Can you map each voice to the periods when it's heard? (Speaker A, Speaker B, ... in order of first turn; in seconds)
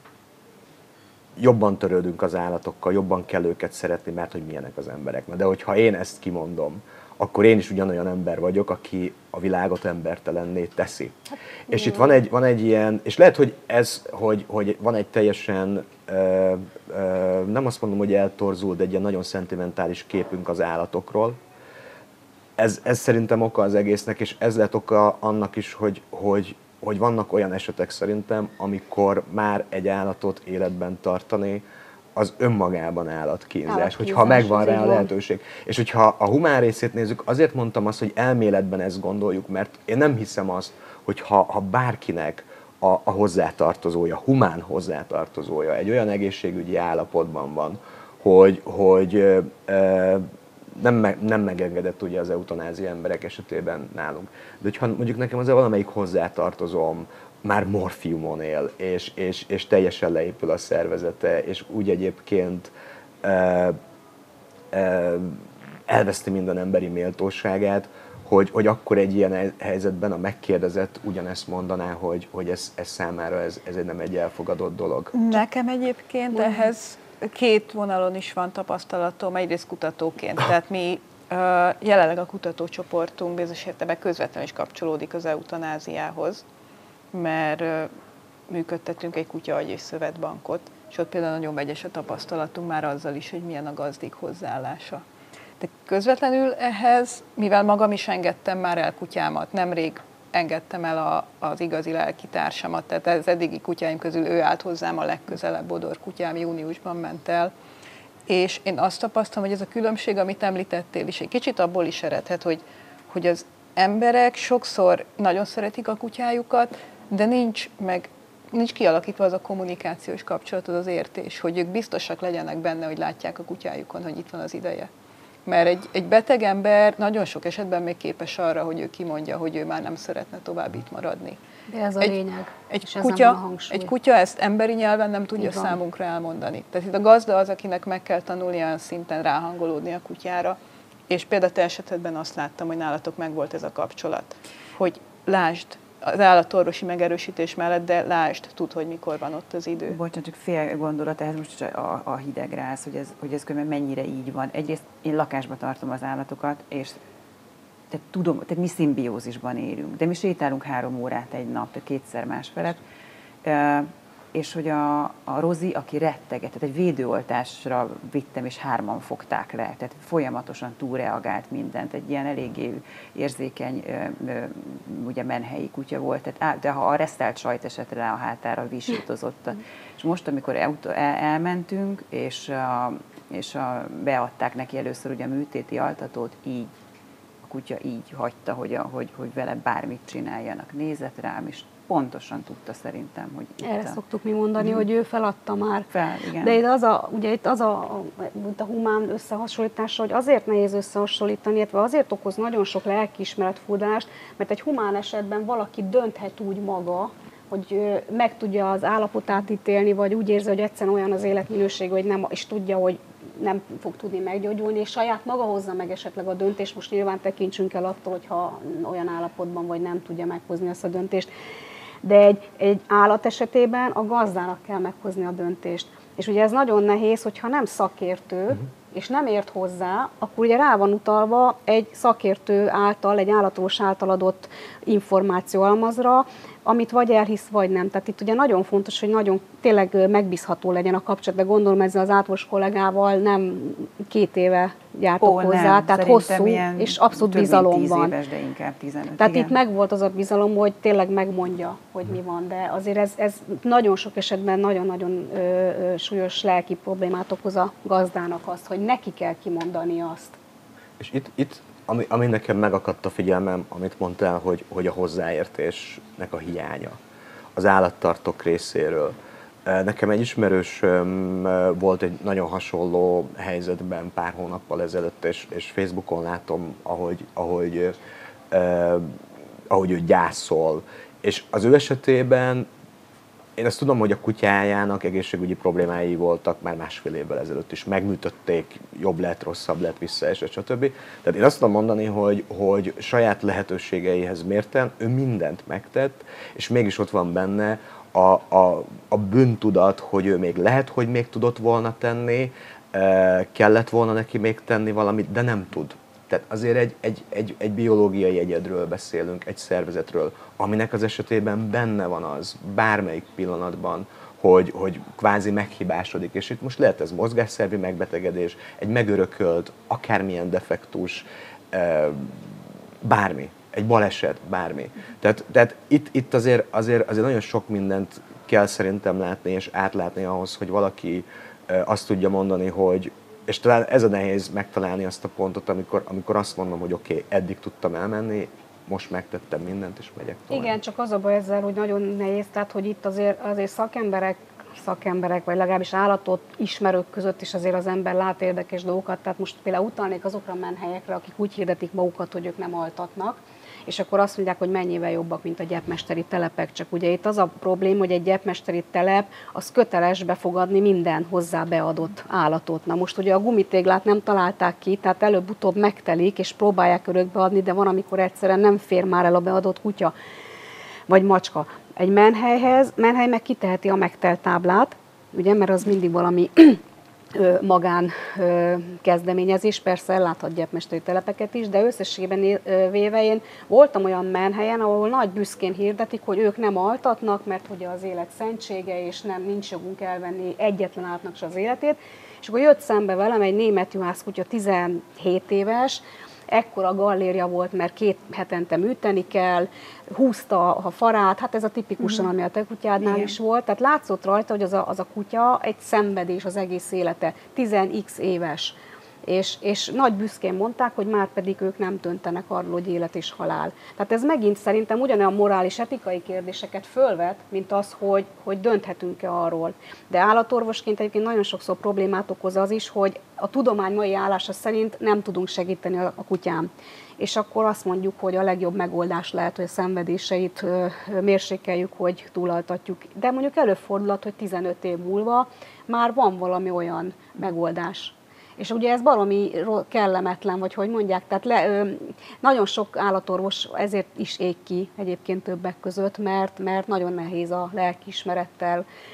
Speaker A: 1.4-21.4, 22.6-31.6, 32.1-62.7, 63.2-63.8, 64.7-75.4, 261.0-267.0, 267.5-278.0, 278.5-282.7, 283.6-340.8
Speaker B: 33.7-35.1, 131.7-133.9, 135.4-135.8, 193.6-195.9, 196.4-221.3, 222.0-248.1, 249.2-260.4, 340.5-370.1, 371.1-376.8, 377.3-448.8
Speaker C: 75.1-86.4, 87.1-87.9, 88.5-95.0, 95.6-107.5, 108.3-124.9, 125.5-131.4, 132.7-140.6, 141.1-150.0
Speaker D: 149.9-157.0, 157.9-162.8, 163.4-186.7, 187.4-194.0, 195.9-196.6, 245.2-249.6